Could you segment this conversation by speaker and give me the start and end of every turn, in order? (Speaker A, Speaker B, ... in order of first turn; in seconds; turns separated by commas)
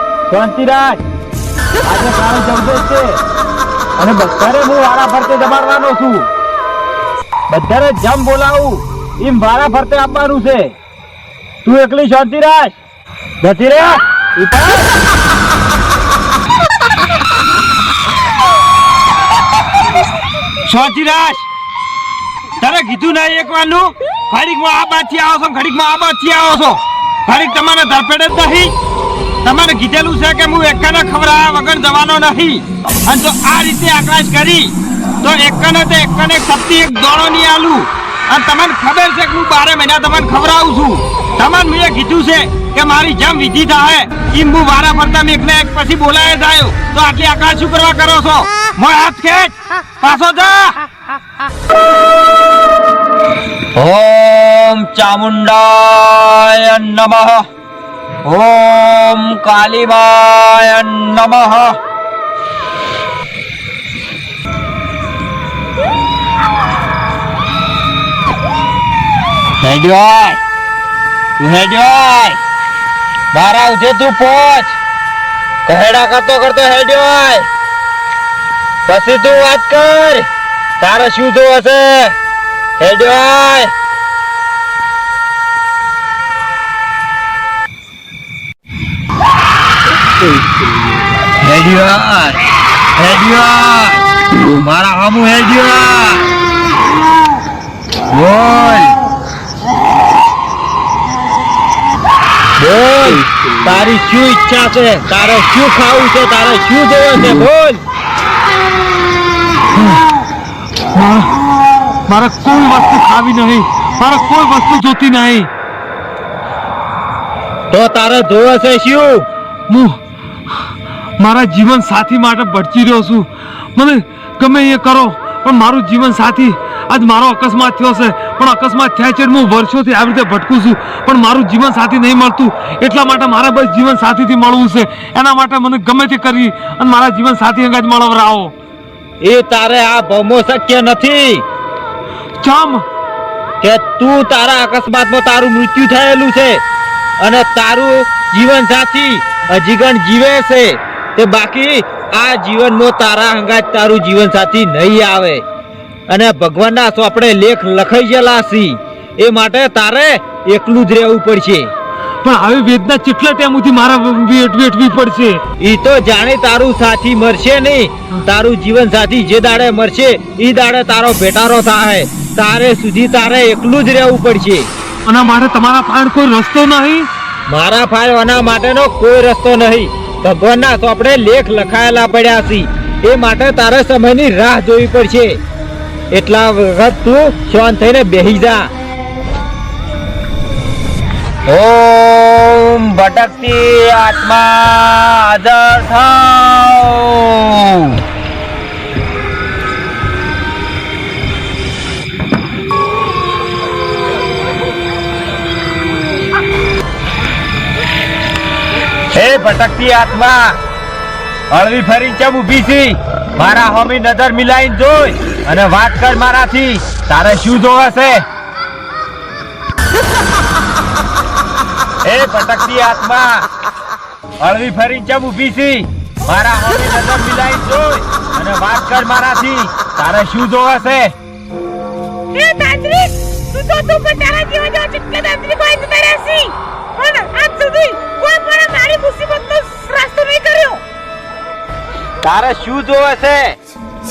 Speaker A: 0.3-1.0, Speaker A: 1.8-3.2, Speaker A: 4.0-6.3, Speaker A: 7.5-10.7, Speaker A: 11.6-12.8, Speaker A: 13.4-14.9, Speaker A: 20.6-21.5, Speaker A: 22.6-28.7, Speaker A: 29.4-50.9, Speaker A: 53.7-57.5, Speaker A: 58.2-61.8, Speaker A: 69.6-70.4, Speaker A: 71.4-72.4, Speaker A: 73.3-74.8, Speaker A: 75.7-77.5, Speaker A: 78.8-80.3, Speaker A: 80.8-82.2, Speaker A: 82.8-83.7, Speaker A: 91.4-96.3, Speaker A: 98.1-99.0, Speaker A: 102.6-107.8, Speaker B: 110.9-111.3, Speaker B: 112.1-115.5, Speaker A: 117.7-119.2, Speaker B: 119.7-120.0, Speaker B: 121.2-138.5, Speaker A: 139.2-141.4, Speaker B: 142.4-142.8, Speaker A: 143.6-146.6, Speaker A: 147.2-155.4, Speaker A: 156.1-161.7, Speaker B: 162.2-165.4, Speaker A: 165.6-174.7, Speaker B: 175.1-177.1, Speaker A: 177.5-185.4, Speaker A: 186.1-188.7, Speaker A: 191.5-198.0, Speaker A: 209.1-210.6, Speaker A: 211.5-218.2, Speaker A: 222.0-223.5, Speaker A: 224.4-231.1, Speaker C: 232.3-240.8, Speaker A: 242.2-243.6